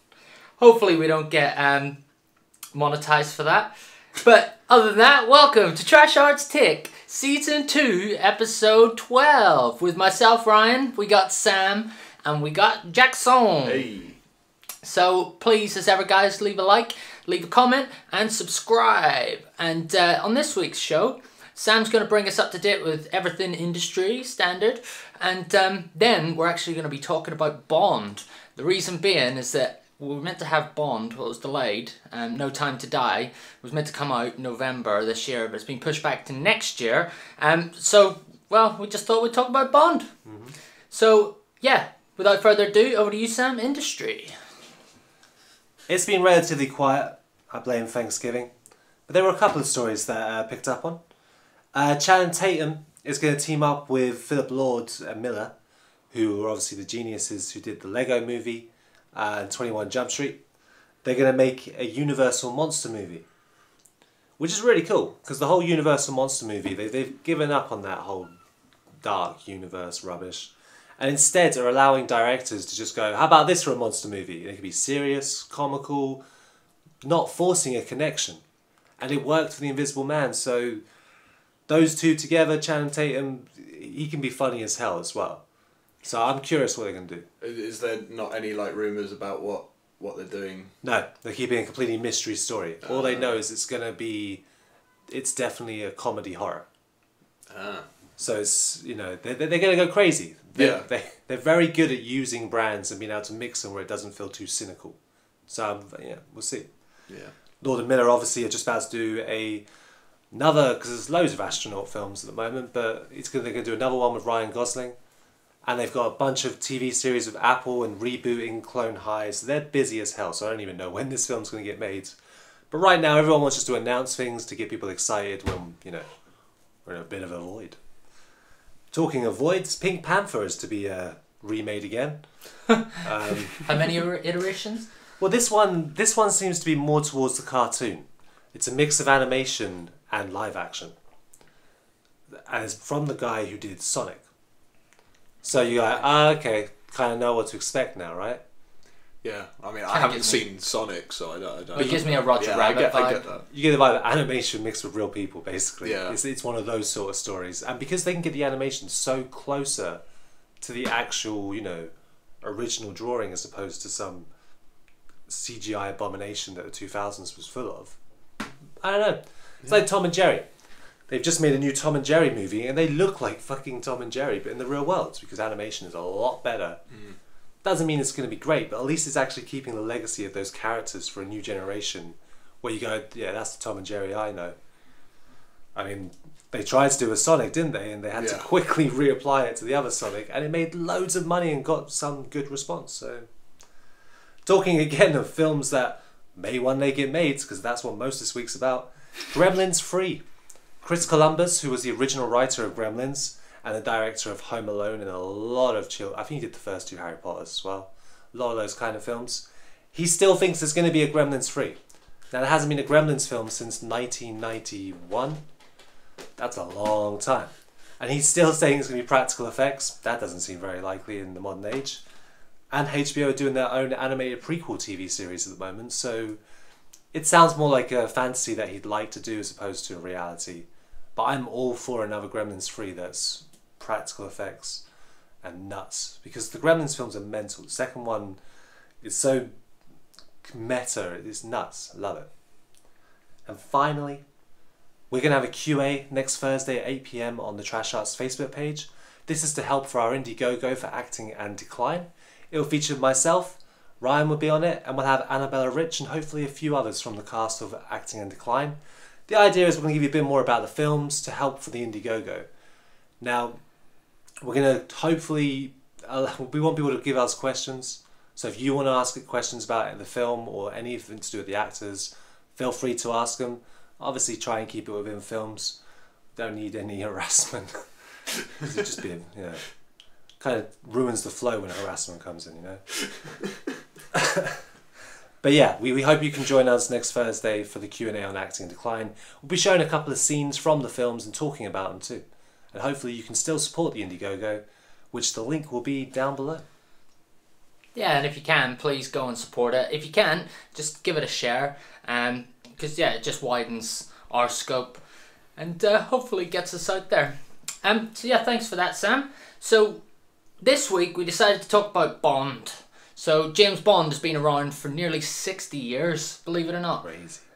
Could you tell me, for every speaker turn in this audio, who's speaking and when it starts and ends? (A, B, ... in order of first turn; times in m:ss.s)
0:00.6-0:02.0 A
0:02.7-0:13.9 A
0:13.6-0:14.2 B
0:14.8-0:40.1 A
0:40.3-0:40.6 C
0:40.9-0:44.4 A
0:45.9-0:48.5 C
0:49.1-0:51.0 C
0:51.7-0:55.5 C
0:56.1-1:00.4 C
1:01.0-1:03.2 C
1:04.4-1:08.3 C
1:09.0-1:16.2 C
1:17.0-1:18.4 C
1:19.0-1:20.8 C
1:21.7-1:25.4 C
1:26.0-1:27.3 C
1:27.4-1:30.7 B
1:30.8-1:34.4 C
1:32.8-1:33.4 B
1:35.1-1:36.7 C
1:37.5-1:37.8 B
1:38.2-1:46.7 C
1:40.6-1:40.8 B
1:47.1-1:47.3 B
1:47.6-1:49.6 C
1:50.3-1:55.0 C
1:55.7-2:02.2 C
2:02.7-2:06.1 C
2:06.8-2:07.8 C
2:08.9-2:12.2 C
2:13.0-2:13.7 C
2:13.6-2:14.9 A
2:15.2-2:21.0 C
2:22.3-2:24.2 C
2:25.4-2:28.4 C
2:29.2-2:33.4 B
2:29.9-2:30.4 A
2:31.8-2:33.2 A
2:33.5-2:40.0 C
2:35.8-2:36.2 B
2:40.6-2:41.9 C
2:42.4-2:44.3 C
2:45.3-2:48.0 C
2:48.8-2:50.5 C
2:51.1-2:56.8 C
2:57.6-3:04.6 C
3:05.8-3:13.3 C
3:08.1-3:08.5 B
3:14.4-3:20.2 C
3:20.8-3:31.8 C
3:32.3-3:35.4 C
3:36.4-3:42.0 C
3:42.7-3:46.4 C
3:47.1-3:54.8 C
3:55.4-3:58.4 C
3:59.0-3:59.5 C
4:00.4-4:02.3 C
4:03.5-4:04.2 C
4:05.1-4:18.8 C
4:19.3-4:22.5 C
4:23.2-4:23.6 C
4:24.4-4:35.8 C
4:36.4-4:37.9 C
4:38.5-4:39.6 C
4:40.4-4:42.9 C
4:44.1-4:44.7 C
4:45.4-4:56.6 C
4:58.0-5:05.0 A
5:05.6-5:10.0 A
5:10.6-5:17.1 A
5:17.0-5:17.4 C